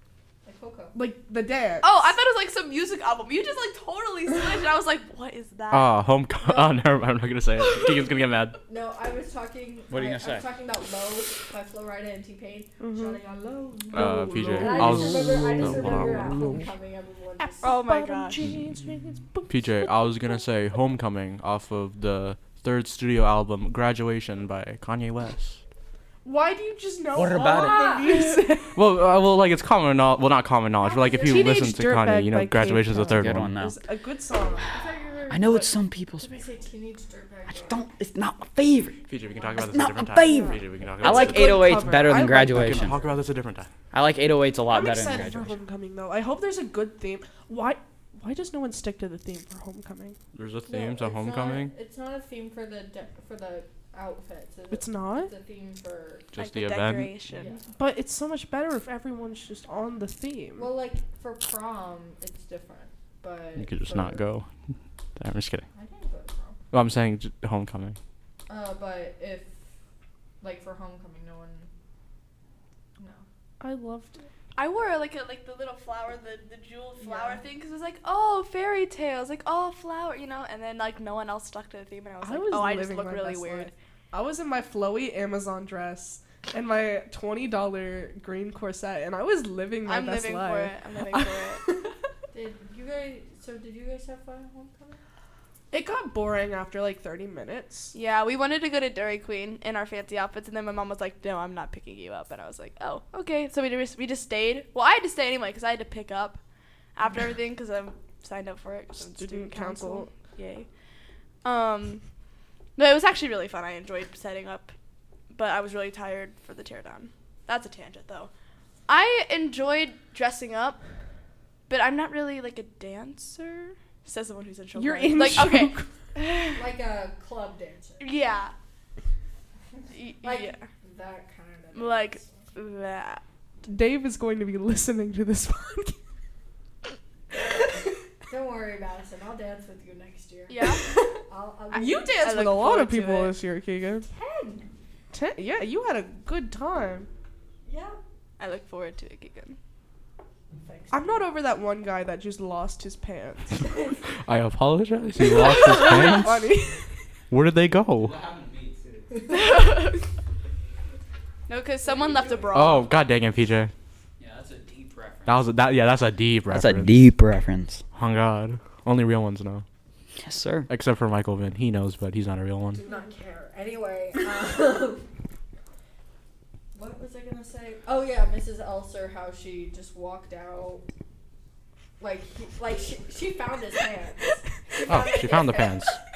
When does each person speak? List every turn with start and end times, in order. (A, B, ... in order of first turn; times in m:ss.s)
0:00.4-0:01.0 A
0:00.9-0:02.1 B
0:01.8-0:06.0 C
0:05.7-0:08.6 D
0:06.4-0:06.8 A
0:08.7-0:17.8 A
0:09.9-0:10.5 E
0:12.8-0:13.2 B
0:13.9-0:16.5 D
0:13.9-0:15.1 B
0:14.8-0:16.5 E
0:17.4-0:18.4 C
0:17.6-0:20.4 B
0:19.5-0:25.6 D
0:26.2-0:28.8 B
0:27.1-0:28.1 E
0:27.4-0:28.2 A
0:28.1-0:28.4 C
0:28.8-0:33.5 D
0:31.0-0:35.7 B
0:33.1-0:33.8 E
0:35.3-0:36.4 E
0:36.3-0:37.8 A
0:37.6-0:39.0 E
0:39.1-0:43.7 D
0:39.4-0:39.7 A
0:39.6-0:43.0 E
0:40.2-0:43.2 B
0:43.9-0:45.6 E
0:44.7-0:50.2 B
0:50.3-0:51.7 D
0:50.7-0:56.3 A
0:54.7-0:55.3 B
0:56.3-0:57.1 D
0:56.4-0:57.6 C
0:57.3-0:57.6 A
0:57.7-1:00.7 B
1:00.6-1:04.2 A
1:03.6-1:04.5 D
1:05.2-1:05.7 D
1:05.8-1:06.6 A
1:06.7-1:08.0 D
1:08.5-1:09.5 A
1:10.4-1:11.7 A
1:13.0-1:13.2 A
1:13.6-1:14.3 B
1:14.6-1:23.7 C
1:17.0-1:17.4 B
1:22.2-1:31.8 B
1:29.9-1:31.6 C
1:32.3-1:35.0 A
1:35.7-1:37.9 B
1:37.9-1:46.4 C
1:47.0-1:50.7 C
1:49.0-1:50.1 B
1:51.4-1:52.0 C
1:52.8-1:54.7 C
1:55.3-1:58.3 C
1:58.9-2:00.8 C
2:01.7-2:06.6 C
2:04.7-2:05.9 B
2:06.5-2:08.2 A
2:08.0-2:08.5 C
2:09.9-2:10.7 C
2:10.2-2:12.5 A
2:11.7-2:13.2 C
2:13.6-2:16.0 B
2:18.3-2:22.1 A
2:20.5-2:21.0 C
2:21.7-2:24.1 B
2:22.1-2:23.4 C
2:24.1-2:24.7 A
2:25.1-2:27.1 B
2:27.6-2:28.0 A
2:28.4-2:29.6 C
2:30.6-2:31.3 A
2:30.9-2:33.8 B
2:34.2-2:36.5 D
2:35.2-2:36.8 B
2:37.3-2:38.2 D
2:38.0-2:39.3 E
2:39.3-2:40.0 C
2:41.5-2:42.9 C
2:41.8-2:42.7 A
2:42.5-2:43.7 D
2:44.2-2:45.5 E
2:45.3-2:47.1 D
2:46.5-2:47.8 E
2:47.9-2:49.6 D
2:50.2-2:50.7 E
2:50.7-2:52.8 D
2:52.8-2:55.0 A
2:56.7-3:00.8 A
3:02.0-3:06.0 A
3:04.9-3:06.0 D